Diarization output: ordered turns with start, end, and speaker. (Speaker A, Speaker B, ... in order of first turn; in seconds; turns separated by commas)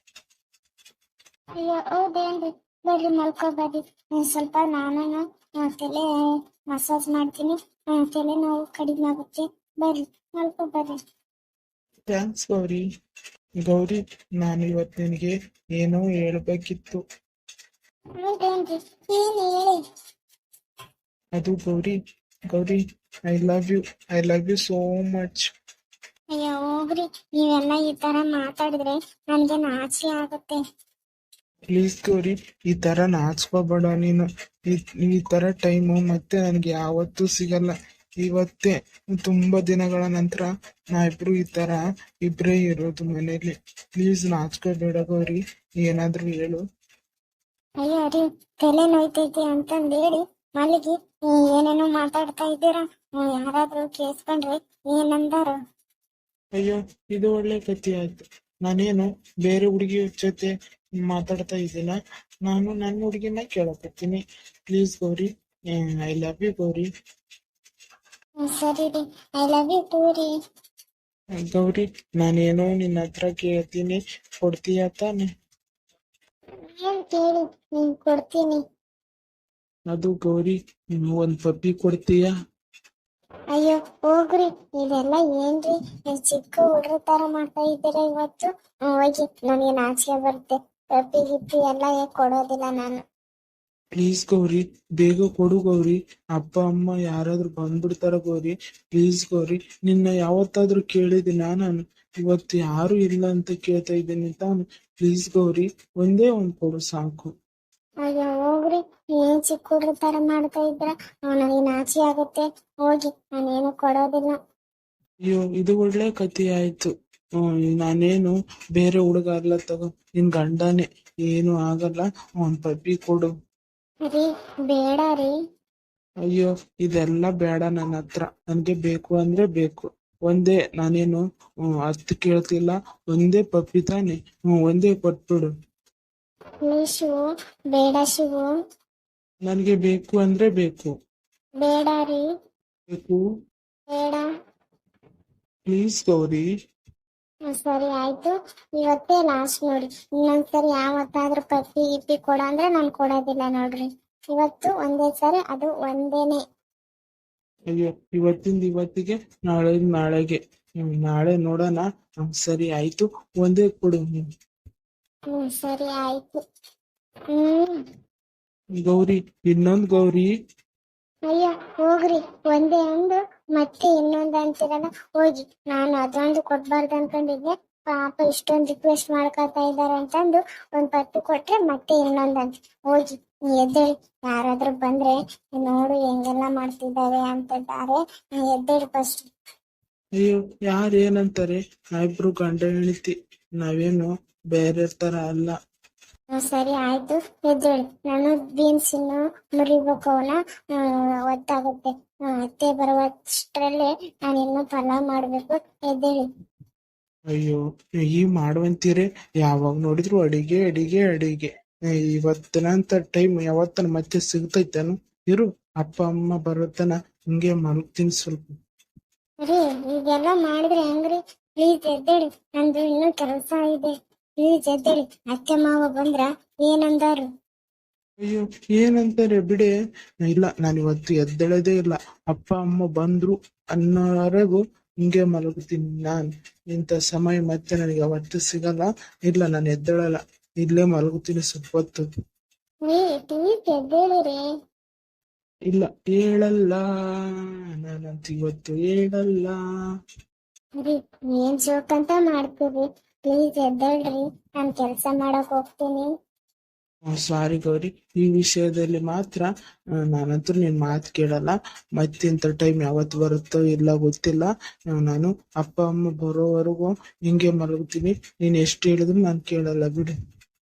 Speaker A: 1.6-6.1, Speaker A: 6.7-11.0, Speaker B: 12.1-12.8, Speaker B: 13.7-17.0, Speaker A: 18.2-19.8, Speaker B: 21.4-22.0, Speaker B: 22.5-25.4, Speaker A: 26.3-30.6, Speaker B: 31.7-46.6, Speaker A: 47.8-55.6, Speaker B: 56.6-60.5, Speaker B: 61.1-65.3, Speaker B: 65.8-66.9, Speaker A: 68.4-70.3, Speaker B: 71.5-75.3, Speaker A: 76.7-78.6, Speaker B: 79.9-82.3, Speaker A: 83.5-93.0, Speaker B: 94.0-107.3, Speaker A: 108.0-114.4, Speaker B: 115.2-116.9, Speaker B: 117.7-123.3, Speaker A: 124.1-125.3, Speaker B: 126.2-131.2, Speaker B: 131.9-135.5, Speaker A: 136.6-137.2, Speaker A: 137.7-138.6, Speaker B: 139.4-140.9, Speaker A: 141.6-142.2, Speaker B: 142.9-143.2, Speaker A: 143.9-144.2, Speaker B: 145.7-146.4, Speaker A: 147.5-156.4, Speaker B: 157.7-164.2, Speaker A: 165.3-166.4, Speaker A: 167.3-167.8, Speaker B: 168.8-170.3, Speaker A: 171.3-189.3, Speaker B: 190.2-195.6, Speaker A: 196.4-206.2, Speaker B: 207.3-218.6, Speaker A: 219.4-227.3, Speaker B: 228.2-242.1, Speaker A: 242.9-244.4, Speaker B: 245.7-246.8, Speaker B: 247.7-249.6, Speaker A: 250.8-256.1, Speaker B: 257.1-259.5, Speaker B: 260.0-270.1